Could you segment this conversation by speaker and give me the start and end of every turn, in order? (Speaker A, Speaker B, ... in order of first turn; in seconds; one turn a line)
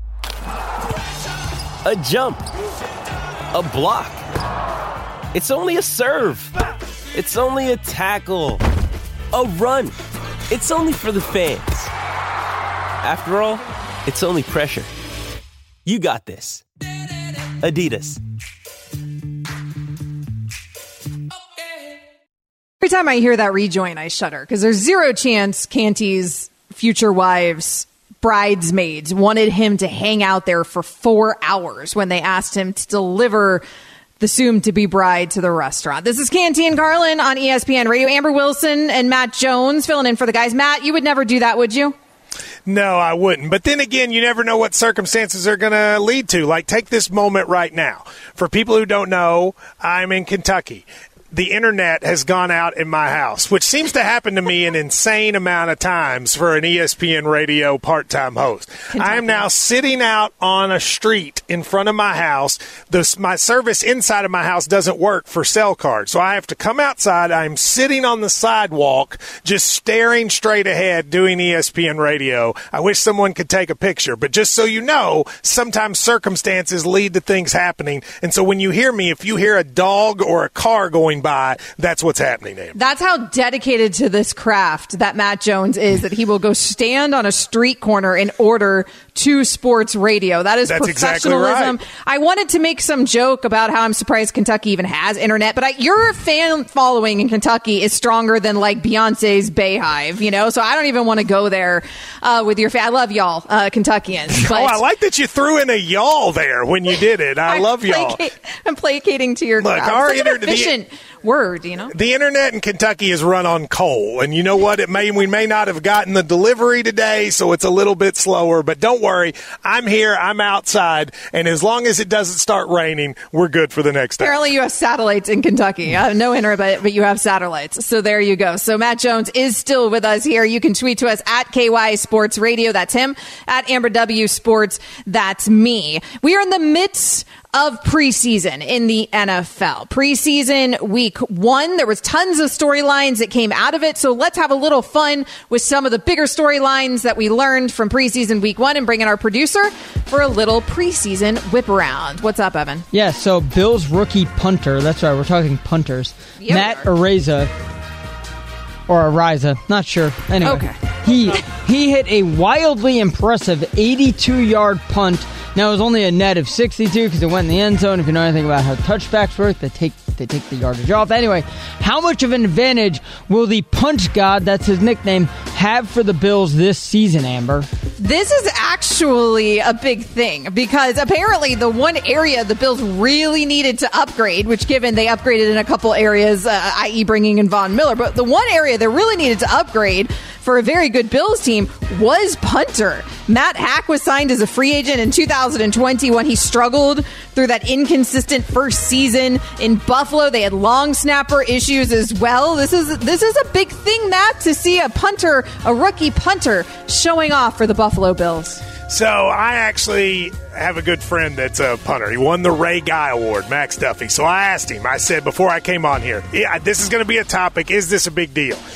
Speaker A: 1.8-2.5
Speaker A: 3.5-4.2
Speaker A: 5.3-6.5
Speaker A: 7.1-8.6
Speaker A: 9.3-9.9
Speaker A: 10.5-11.9
Speaker A: 13.0-14.9
Speaker A: 15.8-16.6
Speaker A: 17.6-18.2
Speaker B: 22.8-33.6
Speaker B: 34.2-42.0
Speaker C: 42.6-82.8
Speaker B: 58.9-59.5
Speaker B: 82.7-104.8
Speaker C: 90.7-91.8
Speaker C: 104.3-108.2
Speaker B: 107.5-111.9
Speaker C: 109.6-110.7
Speaker C: 111.9-124.4
Speaker B: 124.2-152.8
Speaker D: 152.9-157.5
Speaker B: 156.4-156.9
Speaker D: 158.9-177.7
Speaker B: 160.4-160.8
Speaker B: 178.0-208.6
Speaker C: 208.9-218.6